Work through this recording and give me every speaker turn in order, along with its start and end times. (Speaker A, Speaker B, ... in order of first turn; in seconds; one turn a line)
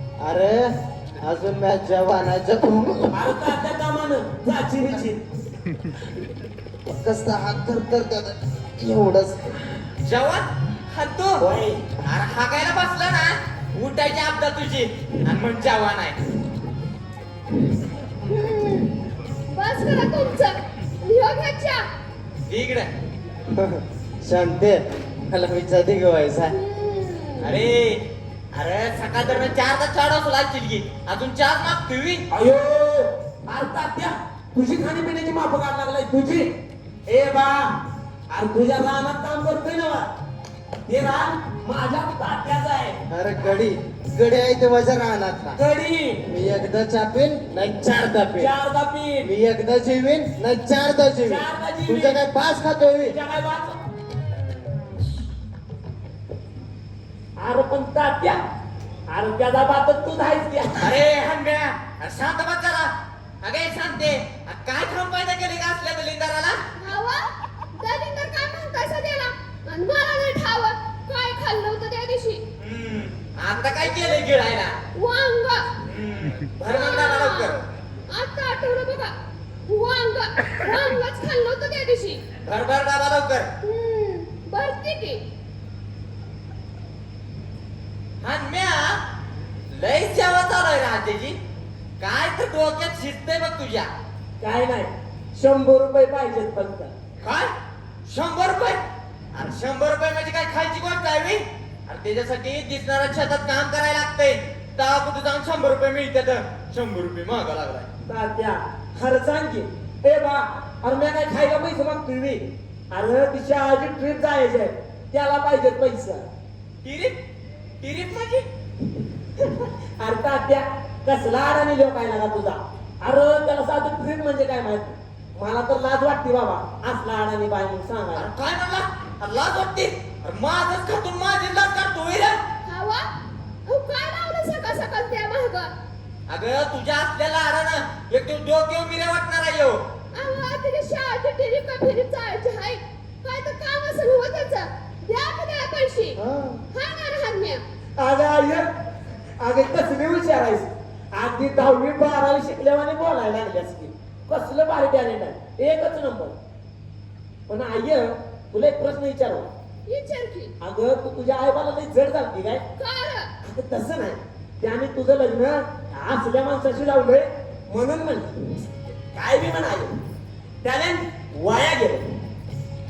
Speaker A: 0.2-3.5
Speaker B: 3.1-5.2
Speaker A: 6.9-9.6
Speaker C: 10.0-11.4
Speaker B: 11.4-11.8
Speaker C: 12.0-16.2
Speaker D: 18.3-18.9
Speaker D: 19.5-21.9
Speaker C: 22.5-22.9
Speaker A: 23.5-26.6
Speaker D: 26.5-27.5
Speaker C: 27.4-28.0
Speaker C: 28.5-32.2
Speaker B: 32.3-36.5
Speaker B: 37.1-37.8
Speaker B: 38.3-40.1
Speaker B: 40.9-43.0
Speaker A: 43.1-45.6
Speaker B: 45.6-46.2
Speaker A: 46.3-48.5
Speaker B: 48.4-49.3
Speaker A: 49.2-53.2
Speaker B: 51.2-52.2
Speaker B: 53.0-53.8
Speaker B: 57.4-58.4
Speaker B: 59.1-60.9
Speaker C: 60.8-66.6
Speaker D: 66.8-72.4
Speaker C: 72.6-74.8
Speaker D: 73.8-74.2
Speaker D: 75.0-75.7
Speaker C: 75.8-77.6
Speaker D: 76.8-79.1
Speaker D: 79.7-82.2
Speaker C: 82.4-83.5
Speaker D: 83.6-85.2
Speaker C: 88.2-89.0
Speaker C: 89.7-91.4
Speaker C: 92.0-93.9
Speaker B: 94.4-96.9
Speaker C: 97.2-97.5
Speaker C: 98.1-98.8
Speaker C: 99.3-107.9
Speaker B: 108.1-116.3
Speaker C: 116.8-117.2
Speaker C: 117.8-118.5
Speaker B: 119.4-128.3
Speaker C: 128.2-132.4
Speaker D: 132.7-133.1
Speaker D: 133.7-135.7
Speaker C: 136.3-139.8
Speaker D: 140.1-146.2
Speaker A: 146.2-146.6
Speaker D: 146.7-147.6
Speaker B: 148.0-148.7
Speaker B: 149.4-156.3
Speaker B: 157.5-159.5
Speaker D: 159.9-160.5
Speaker B: 160.6-162.6
Speaker D: 162.8-163.3
Speaker B: 163.4-168.3
Speaker B: 169.1-169.9
Speaker B: 170.6-172.1